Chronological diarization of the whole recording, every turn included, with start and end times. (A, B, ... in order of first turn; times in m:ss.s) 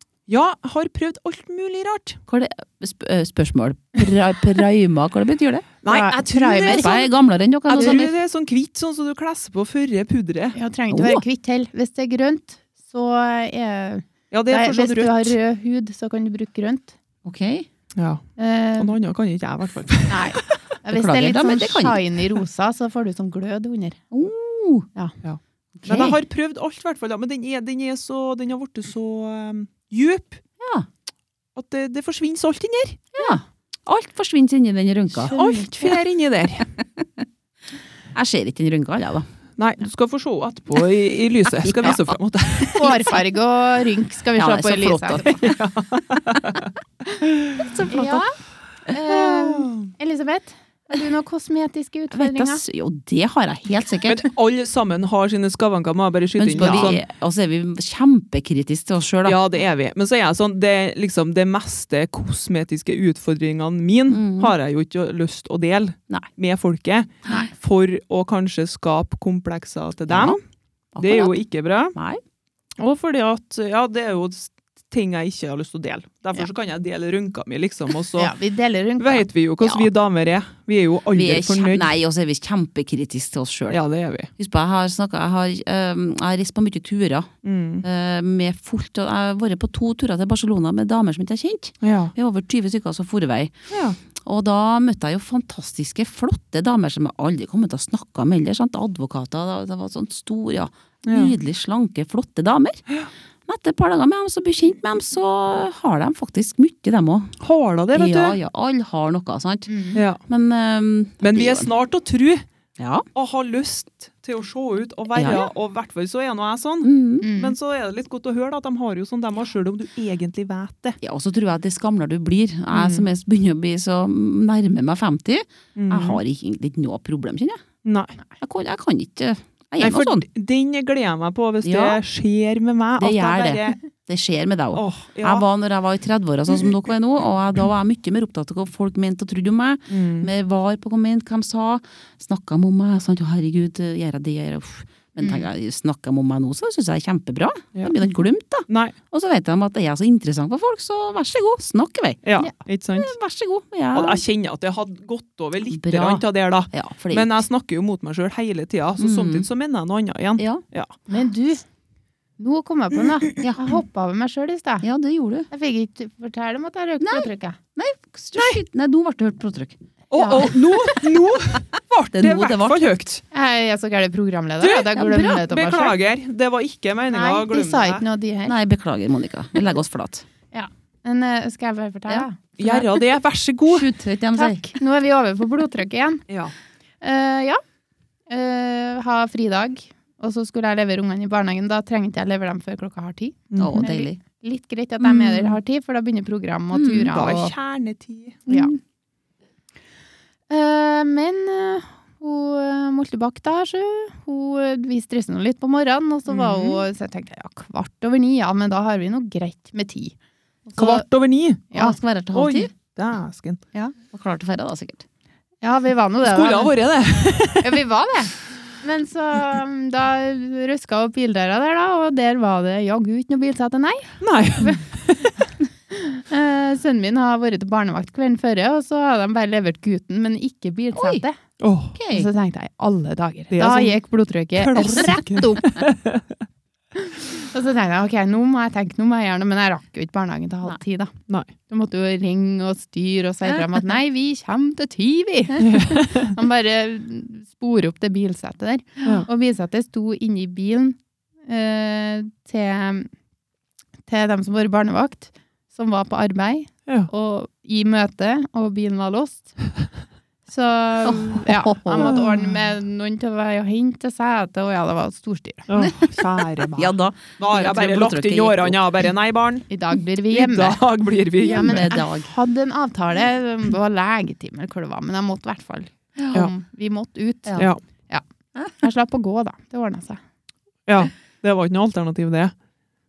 0:00.3-0:02.2 A
0:02.3-0:05.7 B
0:05.8-0:07.0 A
0:05.9-0:07.1 C
0:06.6-0:08.1 B
0:07.7-0:10.6 A
0:10.6-0:16.9 C
0:10.9-0:11.2 B
0:14.3-0:15.4 A
0:17.2-0:17.7 B
0:18.0-0:18.2 A
0:18.4-0:19.0 C
0:18.8-0:20.4 A
0:20.1-0:24.0 C
0:20.9-0:22.0 B
0:24.1-0:24.9 B
0:25.2-0:30.4 A
0:25.8-0:26.2 B
0:30.6-0:30.9 B
0:31.6-0:33.1 A
0:33.2-0:35.4 B
0:35.3-0:36.7 A
0:35.3-0:35.9 C
0:37.0-0:37.2 B
0:38.1-0:39.3 B
0:39.6-0:42.9 A
0:41.6-0:42.1 B
0:42.7-0:45.4 C
0:44.4-0:45.5 B
0:45.2-0:46.7 A
0:47.2-0:47.7 A
0:47.6-0:48.3 C
0:47.8-0:48.2 B
0:48.9-0:52.6 C
0:49.1-0:49.9 A
0:52.1-0:54.3 B
0:54.0-0:57.0 A
0:56.4-0:59.4 B
0:59.2-1:10.4 A
1:04.1-1:04.6 B
1:10.1-1:10.4 B
1:11.0-1:11.4 B
1:11.0-1:12.0 A
1:11.9-1:12.2 B
1:12.8-1:18.3 A
1:18.2-1:19.3 C
1:19.0-1:21.9 A
1:21.1-1:23.8 B
1:23.7-1:24.3 A
1:24.4-1:27.3 B
1:27.4-1:27.8 A
1:27.8-1:33.6 B
1:31.8-1:32.1 A
1:33.7-1:34.0 A
1:34.2-1:42.8 B
1:41.1-1:41.3 A
1:43.5-1:47.4 B
1:47.4-1:48.4 A
1:47.9-1:51.7 B
1:49.7-1:50.0 C
1:50.0-1:50.2 A
1:51.2-1:52.5 A
1:52.8-1:53.1 B
1:53.1-2:01.0 A
1:55.1-1:55.4 B
1:56.8-1:57.3 B
1:57.2-1:57.5 C
2:01.0-2:07.6 B
2:02.7-2:03.1 A
2:05.8-2:06.2 A
2:07.8-2:08.2 A
2:08.4-2:10.2 B
2:09.8-2:13.8 A
2:11.6-2:12.0 B
2:13.0-2:32.2 B
2:14.7-2:15.4 A
2:19.9-2:20.3 A
2:25.2-2:25.5 C
2:28.7-2:29.0 A
2:32.2-2:33.1 A
2:33.0-2:34.2 B
2:33.9-2:40.9 A
2:35.7-2:37.4 B
2:39.0-2:39.5 B
2:40.4-2:40.6 B
2:41.1-2:41.6 C
2:42.4-2:44.9 C
2:44.8-2:45.5 B
2:45.5-2:47.6 C
2:47.0-2:49.8 B
2:50.1-2:53.2 A
2:50.2-2:50.5 C
2:52.1-2:52.8 B
2:53.3-2:56.0 C
2:54.6-2:58.0 A
2:55.0-2:55.4 B
2:57.1-2:58.6 C
2:58.5-3:00.3 B
3:00.5-3:02.9 C
3:02.6-3:03.9 A
3:03.7-3:04.7 B
3:04.3-3:06.2 C
3:07.0-3:07.6 C
3:08.3-3:17.6 C
3:13.5-3:13.8 A
3:13.6-3:14.2 B
3:16.7-3:17.1 B
3:17.1-3:18.5 A
3:18.5-3:18.7 C
3:18.5-3:18.7 B
3:20.5-3:30.2 C
3:26.3-3:26.8 A
3:30.7-3:31.0 C
3:30.8-3:31.8 A
3:31.7-3:32.0 C
3:31.7-3:32.7 B
3:32.3-3:33.6 A
3:34.1-3:35.0 B
3:35.6-3:36.8 C
3:36.2-3:37.8 A
3:37.6-3:44.8 C
3:44.2-3:45.4 A
3:45.9-3:51.4 C
3:50.9-3:51.2 B
3:51.6-3:52.0 A
3:52.0-3:52.3 B
3:52.1-3:55.6 C
3:53.5-3:54.0 A
3:54.6-3:56.2 A
3:57.0-4:01.1 C
4:01.7-4:13.1 C
4:05.6-4:06.3 A
4:14.1-4:19.6 C
4:20.5-4:25.7 C
4:21.0-4:22.2 B
4:21.9-4:22.3 A
4:25.7-4:29.7 A
4:26.8-4:28.8 B
4:29.7-4:30.8 C
4:30.3-4:31.9 A
4:31.4-4:38.2 C
4:31.4-4:32.3 B
4:38.8-4:40.2 C
4:40.9-4:42.5 A